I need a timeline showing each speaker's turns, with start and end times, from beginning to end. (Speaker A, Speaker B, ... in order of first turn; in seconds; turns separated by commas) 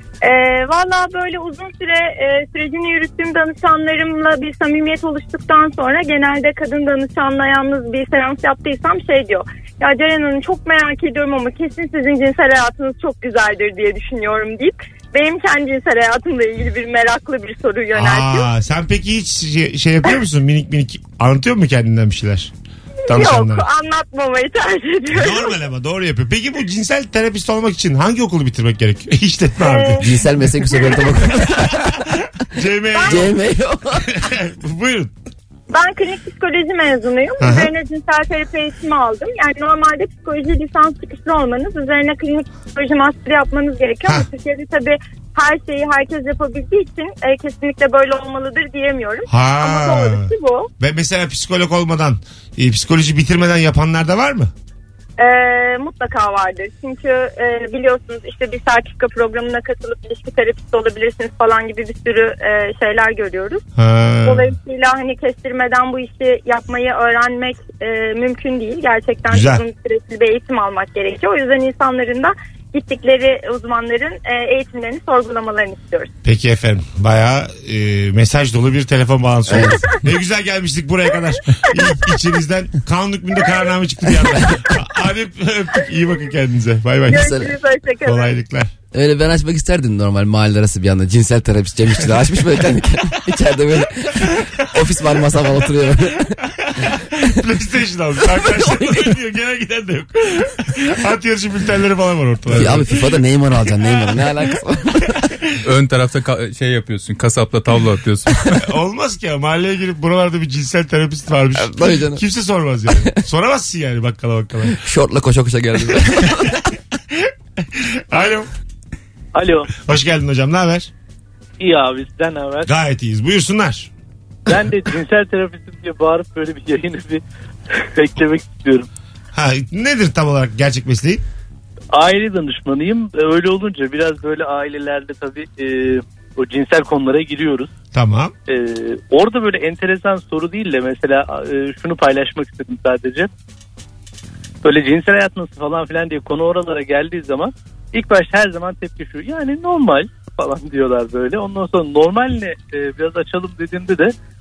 Speaker A: 0.2-18.5, Speaker B: 17.9-22.5, Speaker A: 23.1-25.6, Speaker B: 23.1-23.7, Speaker B: 25.1-30.2, Speaker A: 29.6-30.1, Speaker C: 30.0-32.0, Speaker A: 30.7-31.3, Speaker B: 31.5-33.3, Speaker A: 32.9-33.3, Speaker C: 33.0-34.1, Speaker B: 34.0-35.1, Speaker A: 35.7-50.7, Speaker B: 37.4-37.7, Speaker B: 49.3-54.5, Speaker A: 55.2-63.6, Speaker B: 63.8-64.5, Speaker A: 64.2-76.1, Speaker B: 69.3-69.6, Speaker B: 76.2-87.3, Speaker C: 79.5-79.8, Speaker A: 81.7-82.1, Speaker C: 84.3-84.6, Speaker A: 87.1-88.4, Speaker C: 87.1-87.5, Speaker B: 88.0-88.7, Speaker C: 88.9-96.4, Speaker B: 94.4-94.7, Speaker B: 96.4-103.1, Speaker C: 98.4-99.0, Speaker C: 102.5-105.2, Speaker D: 105.6-108.6, Speaker B: 108.6-114.8, Speaker C: 111.5-112.2, Speaker C: 114.7-116.6, Speaker B: 117.1-118.5, Speaker E: 119.3-119.7, Speaker B: 119.8-120.9, Speaker E: 121.6-122.7, Speaker B: 122.7-123.9, Speaker E: 124.5-127.2, Speaker E: 127.7-128.9, Speaker B: 129.3-131.2, Speaker E: 131.9-137.7, Speaker B: 137.9-138.3, Speaker E: 138.5-143.3, Speaker E: 144.6-154.1